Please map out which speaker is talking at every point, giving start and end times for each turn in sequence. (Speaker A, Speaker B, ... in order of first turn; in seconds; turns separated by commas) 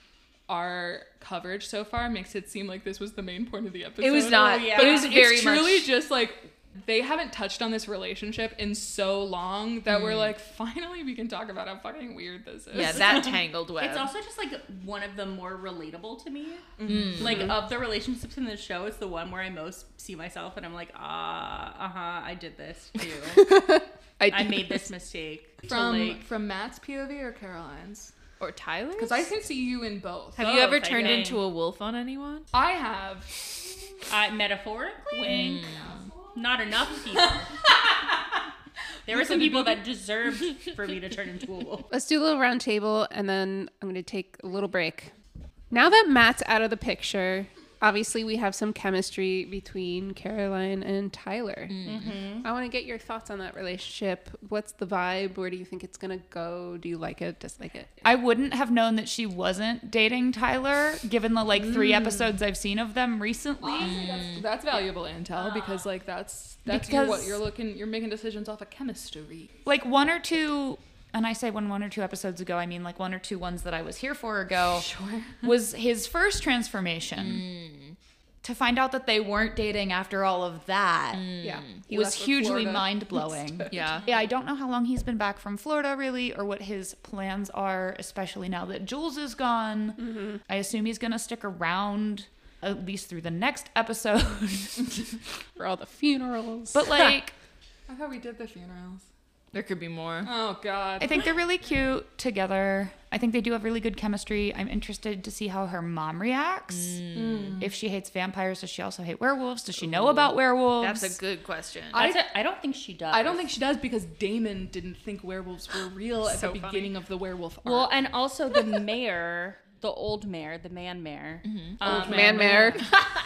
Speaker A: 0.5-13.2, Speaker B: 4.0-5.9, Speaker C: 4.3-5.2, Speaker B: 9.9-10.3, Speaker B: 12.7-14.1, Speaker C: 12.8-23.5, Speaker A: 16.8-17.4, Speaker B: 16.9-17.5, Speaker D: 23.4-24.9, Speaker C: 24.3-26.2, Speaker A: 25.6-28.2, Speaker B: 28.4-29.3, Speaker A: 29.0-31.3, Speaker B: 30.4-32.5, Speaker C: 30.4-31.4, Speaker A: 32.5-33.5, Speaker C: 34.1-35.7, Speaker B: 35.2-36.1, Speaker C: 36.3-37.6, Speaker C: 39.1-41.9, Speaker A: 39.1-39.7, Speaker D: 41.9-45.1, Speaker D: 45.7-51.9, Speaker B: 51.7-52.3, Speaker C: 51.9-52.5, Speaker D: 52.4-57.9, Speaker E: 58.0-64.0, Speaker A: 61.6-62.3, Speaker A: 63.6-69.5, Speaker B: 64.0-64.4, Speaker E: 66.7-67.4, Speaker E: 69.7-74.9, Speaker A: 74.8-75.5, Speaker E: 75.4-77.5, Speaker B: 77.2-78.0, Speaker E: 78.4-95.0, Speaker B: 81.1-81.8, Speaker D: 81.4-83.7, Speaker B: 83.7-84.1, Speaker D: 90.0-90.4, Speaker D: 95.6-97.1, Speaker E: 96.7-97.3, Speaker A: 97.9-99.1, Speaker B: 99.5-100.3, Speaker A: 100.2-101.2, Speaker E: 101.0-111.2, Speaker B: 106.7-107.6, Speaker A: 107.1-107.7, Speaker B: 109.8-112.0, Speaker A: 111.9-112.3, Speaker C: 111.9-113.6, Speaker A: 113.1-118.0, Speaker B: 116.2-116.9, Speaker C: 117.6-122.9, Speaker B: 121.4-122.5, Speaker A: 121.8-122.9, Speaker D: 121.8-122.9